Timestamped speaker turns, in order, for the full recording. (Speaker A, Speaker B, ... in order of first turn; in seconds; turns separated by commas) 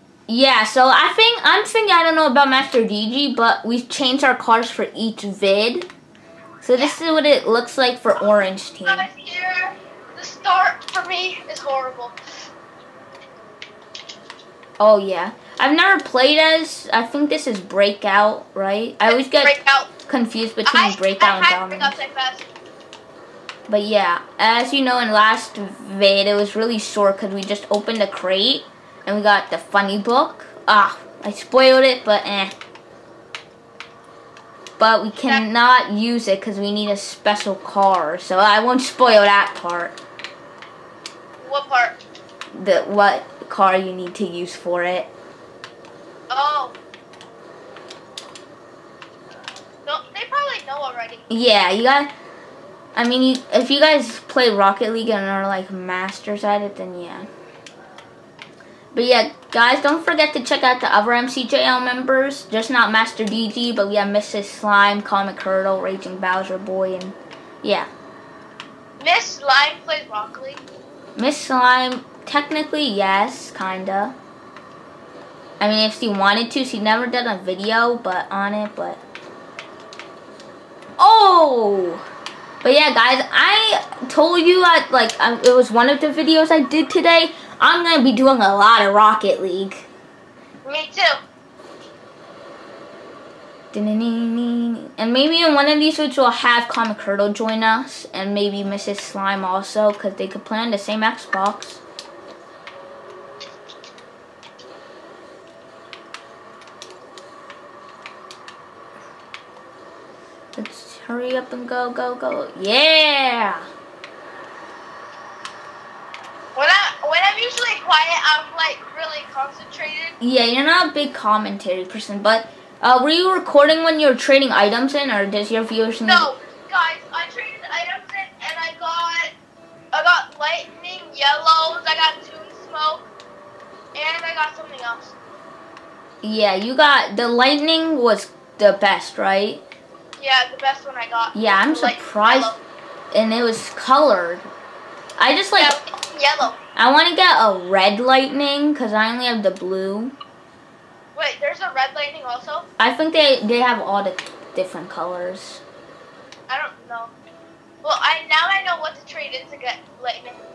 Speaker A: 0.3-5.9, Speaker A: 6.6-9.1, Speaker B: 8.8-12.2, Speaker A: 14.8-22.0, Speaker B: 19.0-19.9, Speaker B: 20.6-22.5, Speaker A: 23.7-32.5, Speaker A: 34.8-39.9, Speaker B: 41.4-42.0, Speaker A: 42.5-45.1, Speaker B: 46.3-46.8, Speaker B: 49.9-51.3, Speaker A: 51.3-52.1, Speaker A: 53.0-57.3, Speaker A: 58.9-67.9, Speaker B: 69.0-70.6, Speaker A: 71.2-74.1, Speaker A: 75.6-79.0, Speaker A: 81.0-82.0, Speaker A: 82.6-89.9, Speaker B: 90.6-91.2, Speaker A: 93.7-101.8, Speaker A: 110.5-113.7, Speaker B: 116.5-120.2, Speaker A: 120.2-126.3, Speaker B: 126.0-129.3, Speaker B: 129.9-133.1, Speaker B: 133.9-135.2, Speaker A: 136.2-139.6, Speaker B: 140.2-142.6, Speaker A: 141.3-142.5, Speaker A: 143.1-144.4, Speaker A: 145.2-145.8, Speaker B: 145.6-146.6, Speaker A: 146.8-150.1, Speaker B: 151.1-152.7, Speaker A: 152.8-155.6, Speaker B: 156.5-157.1, Speaker B: 157.8-160.4